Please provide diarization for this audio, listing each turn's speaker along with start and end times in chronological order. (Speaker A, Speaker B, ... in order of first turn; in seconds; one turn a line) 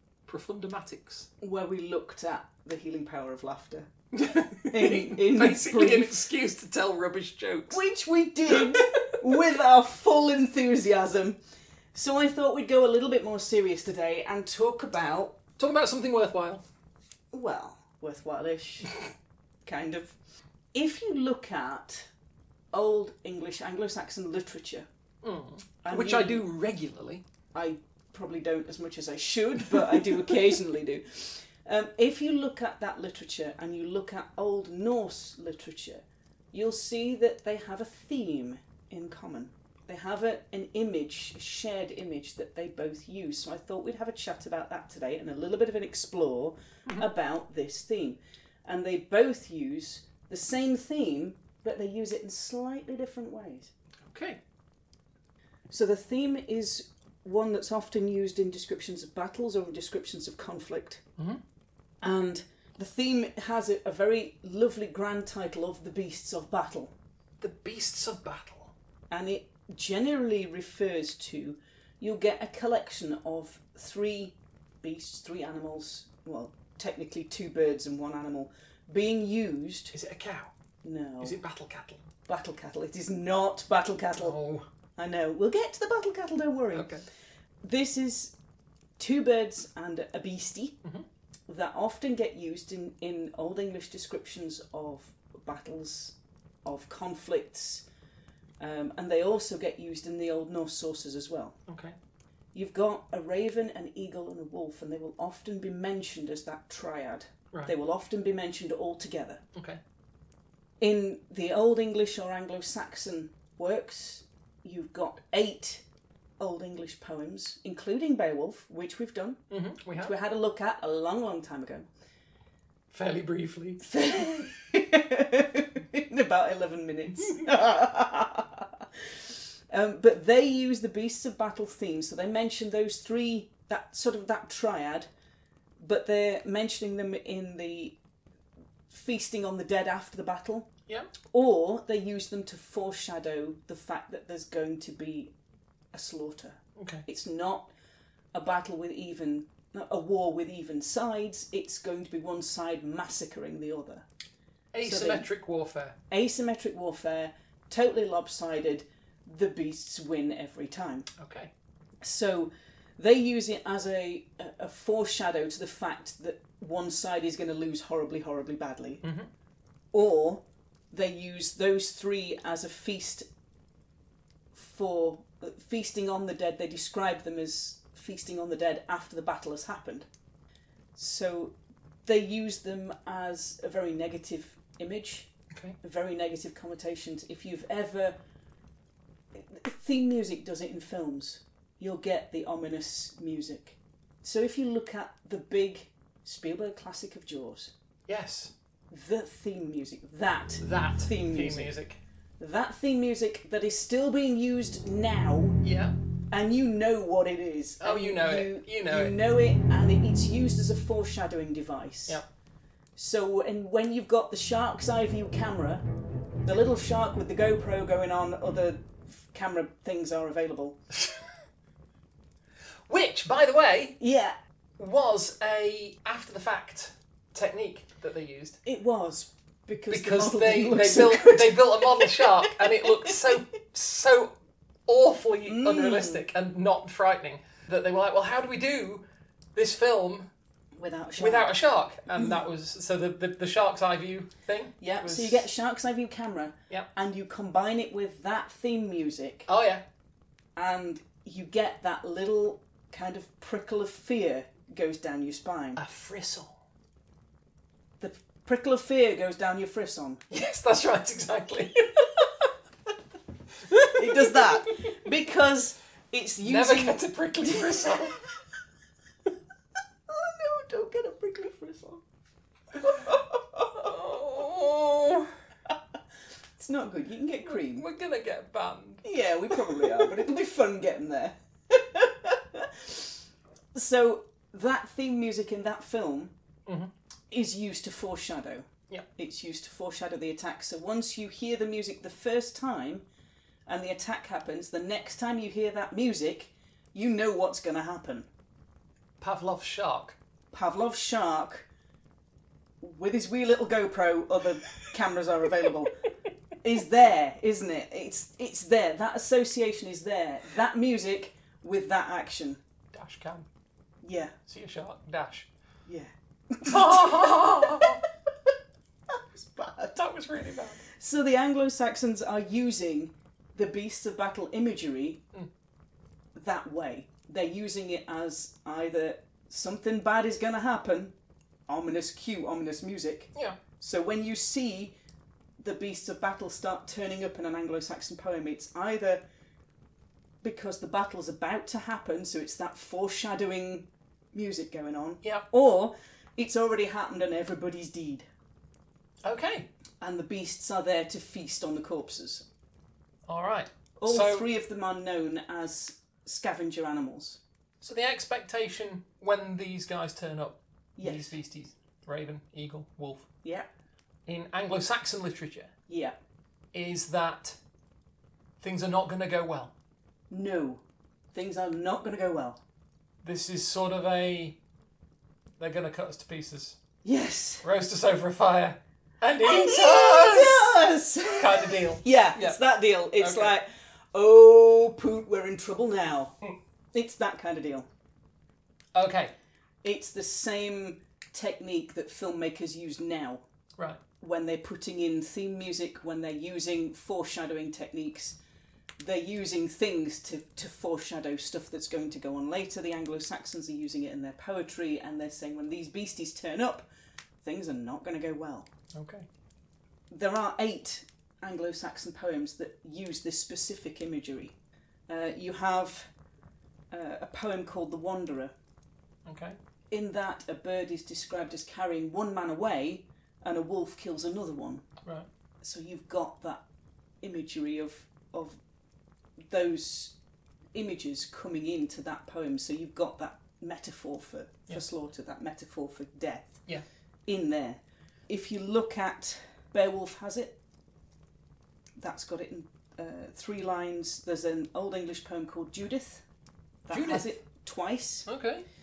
Speaker A: 0.2-1.3
Speaker B: 1.4-3.9
Speaker A: 4.1-7.8
Speaker B: 4.6-6.2
Speaker B: 7.7-11.4
Speaker A: 8.5-9.1
Speaker B: 11.9-15.4
Speaker A: 15.6-16.6
Speaker B: 17.3-19.0
Speaker B: 19.6-20.1
Speaker B: 20.7-22.1
Speaker B: 22.7-24.9
Speaker A: 25.2-27.2
Speaker B: 25.8-26.4
Speaker B: 27.5-53.7
Speaker A: 29.7-30.0
Speaker A: 54.0-54.4
Speaker B: 55.7-61.0
Speaker B: 62.0-66.9
Speaker A: 67.4-68.7
Speaker B: 69.1-79.9
Speaker A: 79.9-80.5
Speaker B: 80.8-81.4
Speaker A: 81.2-82.0
Speaker B: 82.3-84.4
Speaker A: 84.2-84.7
Speaker B: 85.0-87.0
Speaker A: 86.7-87.0
Speaker B: 87.6-88.3
Speaker B: 89.0-90.8
Speaker B: 91.5-97.8
Speaker B: 98.6-101.6
Speaker A: 101.7-102.0
Speaker B: 102.5-109.4
Speaker A: 109.5-109.8
Speaker B: 110.8-115.8
Speaker B: 116.4-119.4
Speaker A: 119.5-120.1
Speaker B: 120.0-121.9
Speaker A: 122.9-123.8
Speaker B: 123.8-128.8
Speaker B: 129.7-135.1
Speaker B: 135.8-138.0
Speaker B: 138.9-140.7
Speaker B: 141.3-145.3
Speaker B: 145.9-147.7
Speaker A: 146.8-147.0
Speaker B: 148.3-154.1
Speaker A: 154.7-156.0
Speaker B: 154.8-155.3
Speaker B: 156.1-161.1
Speaker A: 161.2-161.5
Speaker B: 162.0-169.0
Speaker A: 169.0-169.3
Speaker B: 169.9-173.2
Speaker B: 174.5-180.1
Speaker B: 180.9-188.2
Speaker B: 189.3-197.7
Speaker A: 198.1-198.5
Speaker B: 198.9-201.7
Speaker A: 200.6-202.0
Speaker B: 202.4-205.6
Speaker A: 205.6-205.9
Speaker B: 206.3-212.2
Speaker A: 207.8-209.2
Speaker B: 212.9-215.8
Speaker B: 216.4-220.8
Speaker A: 222.9-224.0
Speaker B: 224.0-224.3
Speaker A: 224.8-228.6
Speaker B: 228.6-233.1
Speaker A: 229.9-234.3
Speaker A: 234.8-239.0
Speaker B: 235.4-236.2
Speaker A: 239.5-240.3
Speaker B: 240.7-241.5
Speaker A: 241.2-245.5
Speaker B: 244.8-249.5
Speaker A: 249.5-249.8
Speaker B: 250.6-255.8
Speaker A: 255.8-256.5
Speaker B: 258.0-260.2
Speaker A: 260.3-262.5
Speaker A: 263.7-264.5
Speaker B: 263.7-268.1
Speaker A: 266.4-268.2
Speaker B: 270.1-272.0
Speaker B: 272.8-275.7
Speaker B: 276.6-277.9
Speaker A: 277.4-280.1
Speaker B: 279.0-283.2
Speaker B: 283.7-286.3
Speaker A: 286.6-286.9
Speaker B: 287.3-293.0
Speaker B: 293.7-298.3
Speaker A: 299.2-300.1
Speaker B: 300.5-301.7
Speaker B: 302.8-305.9
Speaker B: 306.6-312.6
Speaker A: 312.9-313.5
Speaker B: 314.0-314.3
Speaker A: 314.5-315.5
Speaker B: 315.9-318.0
Speaker A: 316.6-318.0
Speaker B: 319.1-320.0
Speaker A: 319.9-320.8
Speaker B: 320.9-325.2
Speaker B: 326.3-331.1
Speaker B: 331.7-334.9
Speaker B: 335.6-339.2
Speaker B: 340.4-348.2
Speaker A: 349.2-349.7
Speaker B: 350.0-352.4
Speaker A: 353.3-354.5
Speaker B: 354.0-357.4
Speaker A: 357.8-363.3
Speaker B: 361.0-361.4
Speaker A: 364.2-365.7
Speaker B: 365.9-366.1
Speaker A: 366.7-367.6
Speaker A: 368.6-369.7
Speaker B: 370.3-370.8
Speaker B: 371.3-372.6
Speaker A: 373.2-374.6
Speaker A: 375.6-376.8
Speaker B: 377.0-377.6
Speaker A: 377.6-380.8
Speaker B: 379.4-386.4
Speaker A: 381.3-382.6
Speaker A: 383.2-383.5
Speaker B: 386.9-387.9
Speaker A: 388.9-389.3
Speaker B: 389.8-393.4
Speaker B: 394.2-398.4
Speaker B: 399.0-406.9
Speaker B: 407.4-408.7
Speaker A: 408.9-409.3
Speaker B: 410.1-414.6
Speaker B: 415.1-416.1
Speaker B: 416.9-418.5
Speaker A: 419.2-419.6
Speaker B: 419.9-424.9
Speaker B: 425.6-426.6
Speaker B: 427.2-428.6
Speaker B: 429.5-430.1
Speaker B: 430.7-436.6
Speaker B: 437.3-440.6
Speaker B: 442.0-446.2
Speaker B: 446.8-448.3
Speaker A: 446.9-447.3
Speaker A: 448.2-448.6